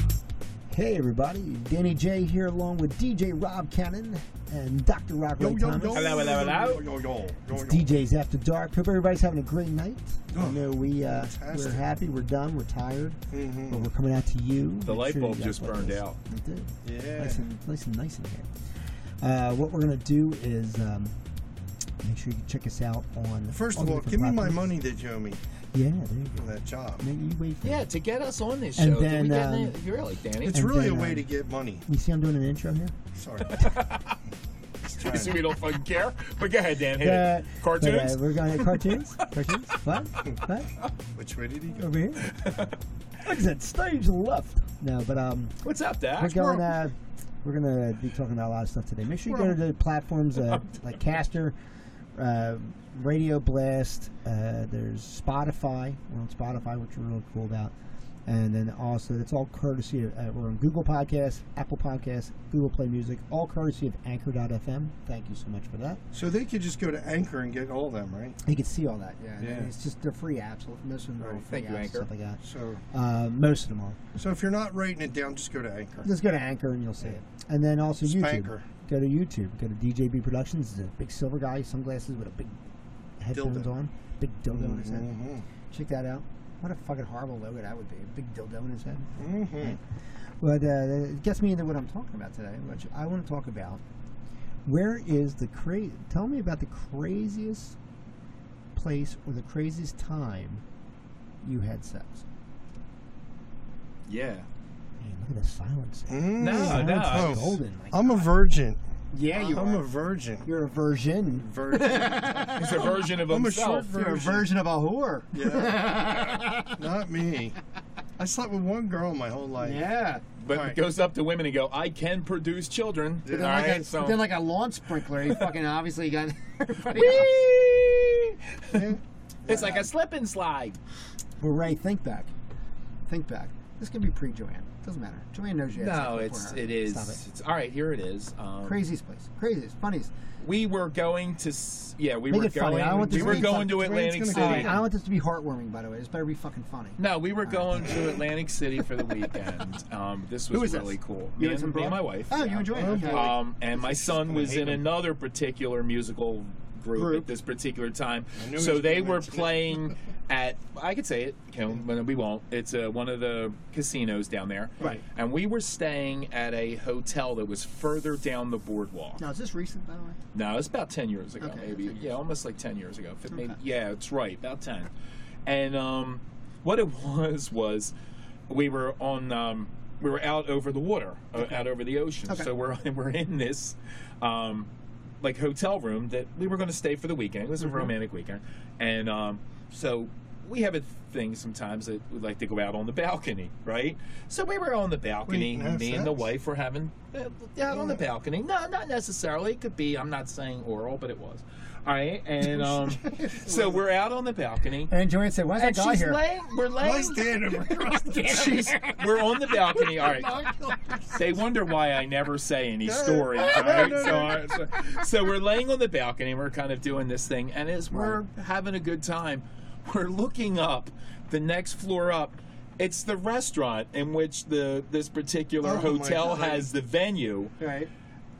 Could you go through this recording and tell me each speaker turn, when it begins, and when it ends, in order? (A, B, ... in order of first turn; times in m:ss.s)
0:00.7-0:06.1 A
0:05.4-0:07.9 B
0:05.9-0:06.8 C
0:07.5-0:18.5 A
0:10.3-0:11.8 B
0:13.3-0:13.8 B
0:14.8-0:16.2 C
0:16.8-0:17.4 B
0:19.2-0:21.2 A
0:22.0-0:24.7 A
0:23.5-0:25.4 B
0:25.7-0:26.4 A
0:26.4-0:27.0 B
0:27.0-0:27.9 A
0:27.6-0:30.5 C
0:28.8-0:29.8 A
0:30.4-0:31.8 B
0:30.5-0:31.3 A
0:31.8-0:33.0 A
0:33.1-0:33.6 B
0:33.5-0:34.2 C
0:34.8-0:35.4 B
0:35.0-0:38.9 C
0:37.0-0:40.7 A
0:41.1-0:41.9 B
0:41.7-0:42.3 A
0:42.2-0:42.7 C
0:43.2-0:45.6 A
0:45.6-0:46.6 C
0:46.2-0:51.5 A
0:49.3-0:49.6 B
0:52.1-0:57.7 A
0:58.3-1:06.0 A
1:06.1-1:08.4 B
1:08.4-1:14.0 A
1:09.4-1:09.7 B
1:11.2-1:11.4 B
1:11.5-1:12.1 C
1:12.4-1:12.8 B
1:14.2-1:16.1 B
1:16.0-1:22.6 A
1:18.0-1:18.6 B
1:23.2-1:25.1 A
1:23.3-1:23.7 B
1:24.5-1:25.4 B
1:25.7-1:29.1 A
1:29.2-1:29.8 B
1:30.4-1:33.8 A
1:34.6-1:37.8 A
1:38.7-1:40.6 A
1:41.4-1:42.2 A
1:44.1-1:44.5 C
1:45.0-1:48.3 A
1:46.1-1:48.8 B
1:46.4-1:47.5 C
1:49.1-1:49.8 A
1:49.3-1:50.5 B
1:50.4-1:53.1 A
1:51.4-1:54.5 B
1:52.6-1:53.9 C
1:53.8-1:56.8 A
1:55.3-1:57.6 B
1:58.2-1:59.8 B
1:59.6-2:00.2 A
2:00.4-2:04.3 C
2:00.5-2:00.8 B
2:03.2-2:03.8 B
2:03.3-2:07.4 A
2:06.9-2:08.8 C
2:08.7-2:09.8 B
2:09.4-2:10.8 C
2:09.5-2:09.8 A
2:11.4-2:12.3 A
2:13.1-2:17.2 A
2:15.8-2:18.8 C
2:18.6-2:20.1 A
2:20.4-2:24.8 C
2:22.3-2:28.0 A
2:22.9-2:24.8 B
2:27.0-2:49.2 C
2:30.5-2:33.4 A
2:32.7-2:34.8 B
2:36.9-2:37.3 A
2:38.4-2:39.9 B
2:49.2-2:50.2 A
2:50.3-2:54.9 C
2:51.4-2:52.2 A
2:53.3-2:53.6 A
2:55.4-2:57.9 C
2:58.5-3:04.7 C
3:05.2-3:24.9 C
3:07.6-3:07.9 A
3:15.3-3:16.3 B
3:17.7-3:18.0 B
3:22.9-3:23.7 A
3:24.9-3:26.2 A
3:25.5-3:27.3 C
3:26.8-3:28.7 B
3:27.6-3:31.2 A
3:28.3-3:30.3 C
3:31.1-3:47.5 C
3:32.8-3:34.5 B
3:33.4-3:34.4 A
3:37.9-3:38.2 A
3:45.6-3:46.7 B
3:47.6-3:47.9 A